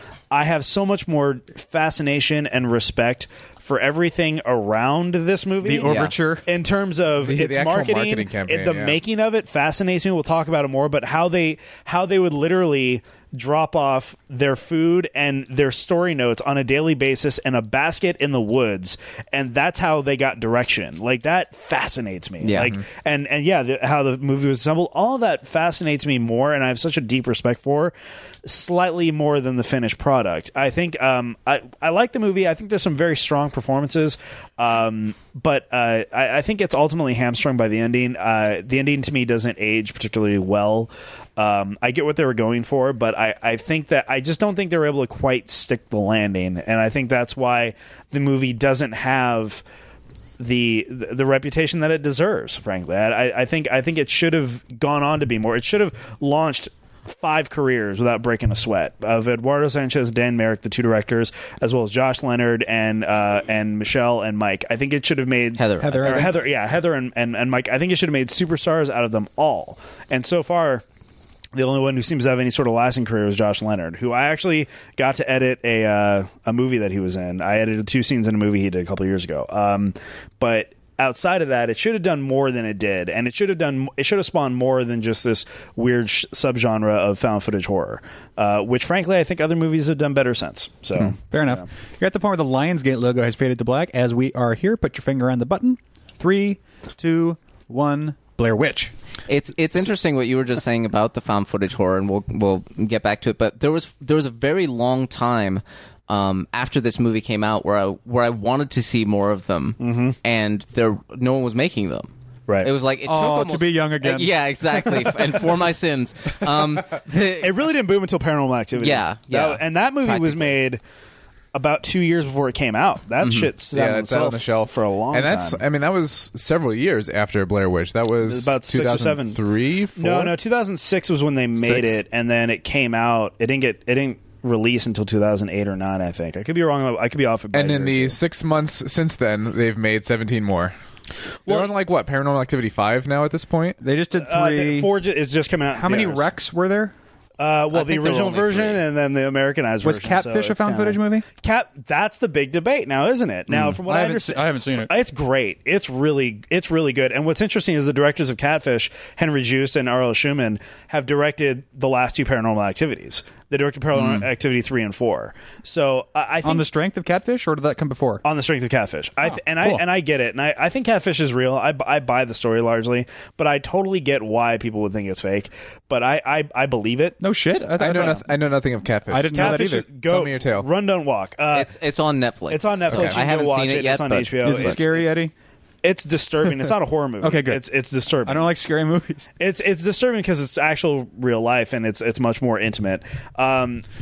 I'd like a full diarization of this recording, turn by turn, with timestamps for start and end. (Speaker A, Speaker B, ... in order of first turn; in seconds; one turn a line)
Speaker A: 0.3-27.9
Speaker B: 5.6-6.5
Speaker C: 5.8-6.1
Speaker D: 7.2-9.0
Speaker C: 22.4-22.8
Speaker A: 28.4-49.6
Speaker A: 50.4-70.8
Speaker C: 65.6-66.3
Speaker B: 65.8-66.4
Speaker A: 71.5-91.6
Speaker B: 91.3-98.9
Speaker C: 99.3-112.1
Speaker A: 109.8-110.2
Speaker C: 112.6-117.5
Speaker B: 113.1-115.4
Speaker A: 117.4-120.8
Speaker C: 118.8-120.6
Speaker A: 121.5-125.6
Speaker C: 123.2-123.5
Speaker D: 123.7-130.4
Speaker A: 128.2-129.4
Speaker A: 130.0-138.2
Speaker D: 131.6-132.0
Speaker D: 137.5-140.7
Speaker D: 141.5-143.8
Speaker B: 143.8-144.9
Speaker A: 144.2-146.3
Speaker B: 145.8-146.9
Speaker A: 147.4-166.6
Speaker C: 147.7-148.8
Speaker B: 149.8-151.3
Speaker B: 153.8-154.9
Speaker D: 163.9-164.3
Speaker B: 166.4-168.2
Speaker A: 168.2-177.2
Speaker B: 169.2-169.8
Speaker B: 177.2-178.3
Speaker D: 177.8-180.7
Speaker A: 177.8-178.2
Speaker B: 179.1-179.9
Speaker A: 179.3-181.7
Speaker C: 181.5-184.8
Speaker A: 182.5-185.1
Speaker D: 182.9-183.2
Speaker B: 184.4-185.3
Speaker A: 185.8-188.5
Speaker B: 187.2-187.6
Speaker B: 188.2-189.3
Speaker A: 189.4-193.8